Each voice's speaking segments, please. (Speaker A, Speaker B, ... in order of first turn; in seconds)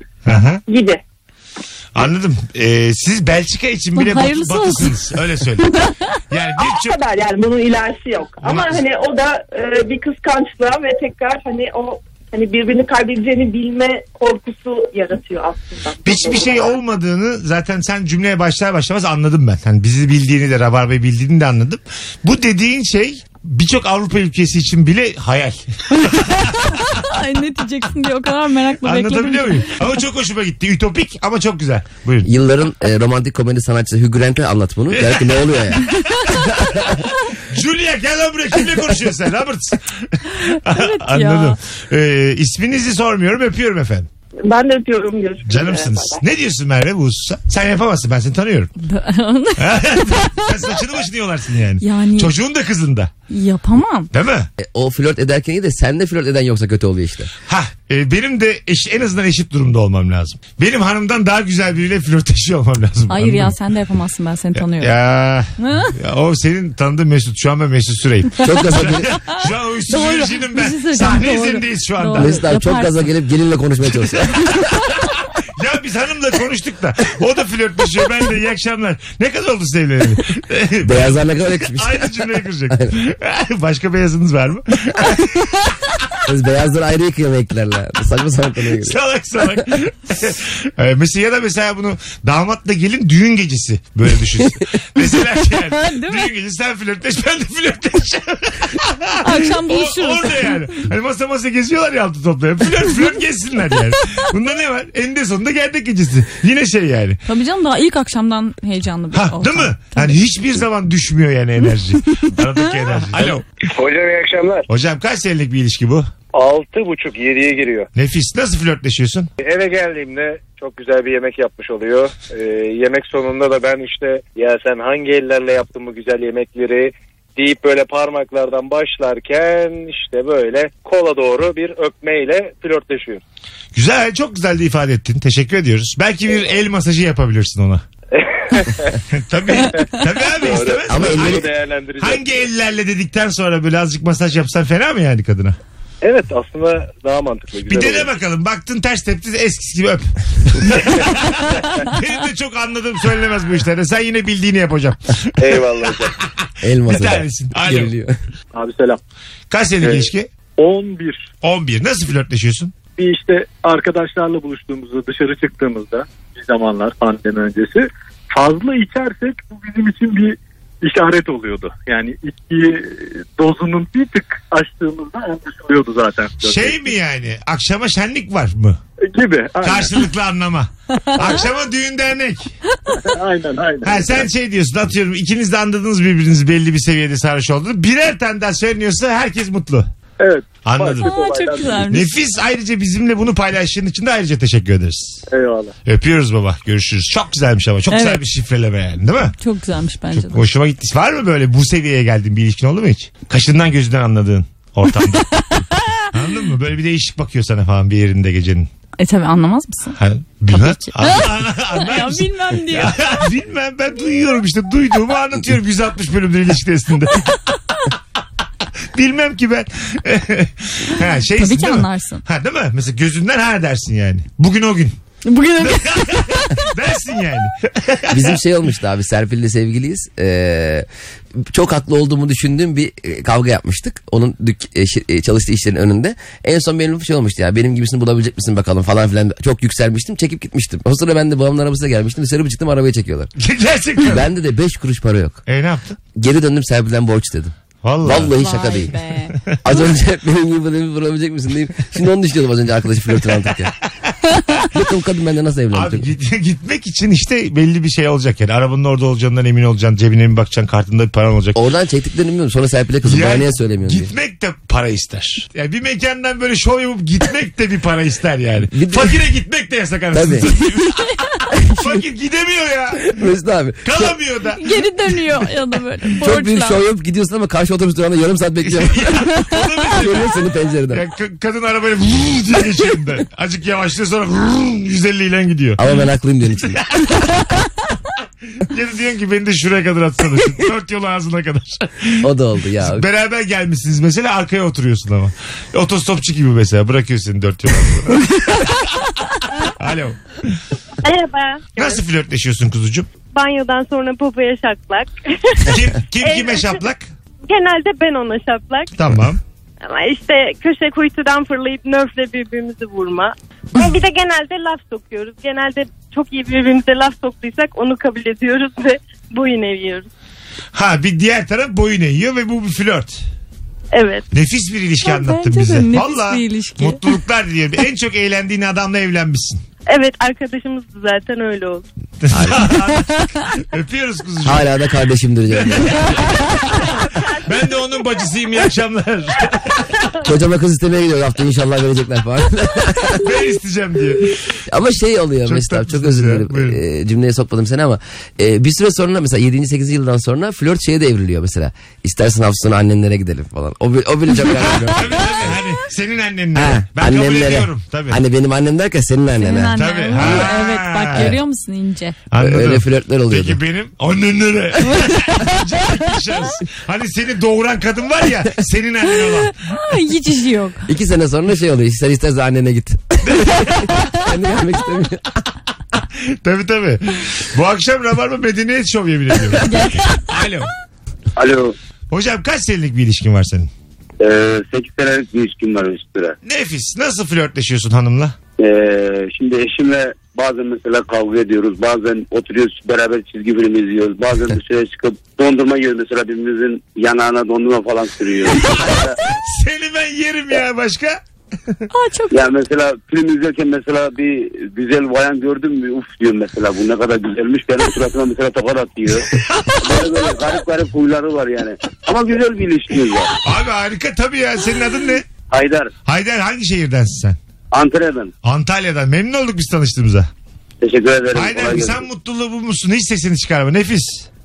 Speaker A: 0.2-0.6, 1.9-5.8, 6.3-7.0, 8.4-8.8, 16.0-27.1, 28.8-32.3, 34.9-35.4, 36.1-37.0, 37.5-44.1, 45.4-48.7, 49.6-53.1, 54.1-54.5, 57.5-63.6, 64.6-72.4, 75.1-85.7, 88.8-107.2, 109.1-113.4, 114.7-116.1, 118.0-119.3, 133.7-137.8, 139.1-145.6, 147.7-156.3, 156.8-157.9, 159.5-160.3, 161.4-162.7, 176.4-178.8, 179.6-182.5, 183.8-189.9, 190.6-191.2, 191.8-195.2, 195.9-199.3, 200.1-205.3, 206.1-208.7, 210.0-217.3, 218.9-225.0, 225.6-228.4, 243.4-244.3, 245.5-246.0, 247.8-248.4, 255.7-261.6, 263.1-273.2, 273.8-274.8, 278.6-280.3, 280.9-285.8, 286.7-287.2, 288.7-292.2, 292.8-299.0, 299.8-300.6, 301.8-303.1, 305.7-307.1, 308.9-309.4, 320.7-323.2, 324.3-329.6, 332.2-334.7, 335.6-336.6, 337.4-339.9, 343.1-344.6, 345.5-346.8, 354.8-358.2, 359.8-361.4, 362.3-369.5, 373.3-373.8, 376.3-380.7, 382.1-383.7, 386.4-388.4, 398.7-401.2, 409.3-409.8, 413.4-415.3, 416.1-417.4, 418.4-420.3, 421.3-424.3
Speaker B: 0.7-1.0, 6.6-16.8, 44.5-46.2
Speaker C: 4.0-5.0, 25.9-29.8, 40.3-41.6, 48.8-50.5, 51.8-52.3, 53.3-54.1, 63.1-65.0, 65.6-66.0, 68.6-73.1, 95.6-96.3, 99.2-100.8, 107.3-110.2, 191.0-192.2, 197.9-198.2, 199.4-200.5, 204.9-206.1, 209.0-210.0, 210.5-213.3, 221.0-222.2, 225.2-226.6, 248.3-249.4, 270.6-271.3, 274.6-276.8, 279.3-279.9, 325.0-327.2, 333.2-333.4, 359.4-362.2, 364.9-365.6, 369.1-370.8, 379.6-380.4, 401.9-402.3
Speaker D: 32.2-36.8, 54.6-57.3, 68.4-69.2, 72.2-74.3, 80.8-82.9, 86.3-89.0, 140.9-141.5, 156.6-158.2, 228.1-243.3, 244.1-245.4, 246.2-248.9, 249.6-253.7, 254.7-256.1, 261.6-264.1, 268.7-269.2, 270.1-270.5, 273.1-274.2, 276.2-279.2, 280.0-281.0, 285.8-286.8, 292.2-293.1, 332.3-332.7, 334.4-336.1, 340.2-343.2, 344.7-355.6, 356.6-360.4, 362.4-363.6, 370.9-375.3
Speaker E: 113.2-114.7, 116.3-117.9, 119.4-133.2, 138.2-139.0, 140.0-142.5, 146.0-148.1, 150.8-151.1, 155.4-156.2, 158.5-159.0, 159.8-161.3, 163.0-176.9, 179.1-180.1, 183.0-184.3, 190.2-191.9, 195.3-195.8
Speaker F: 301.0-302.0, 303.3-306.8, 307.5-308.9, 309.8-320.1, 323.9-324.3, 329.9-331.9, 337.2-338.0
Speaker G: 381.4-381.8, 384.2-386.4, 388.6-399.2, 402.3-413.4, 415.5-415.9, 417.7-418.3, 420.8-422.0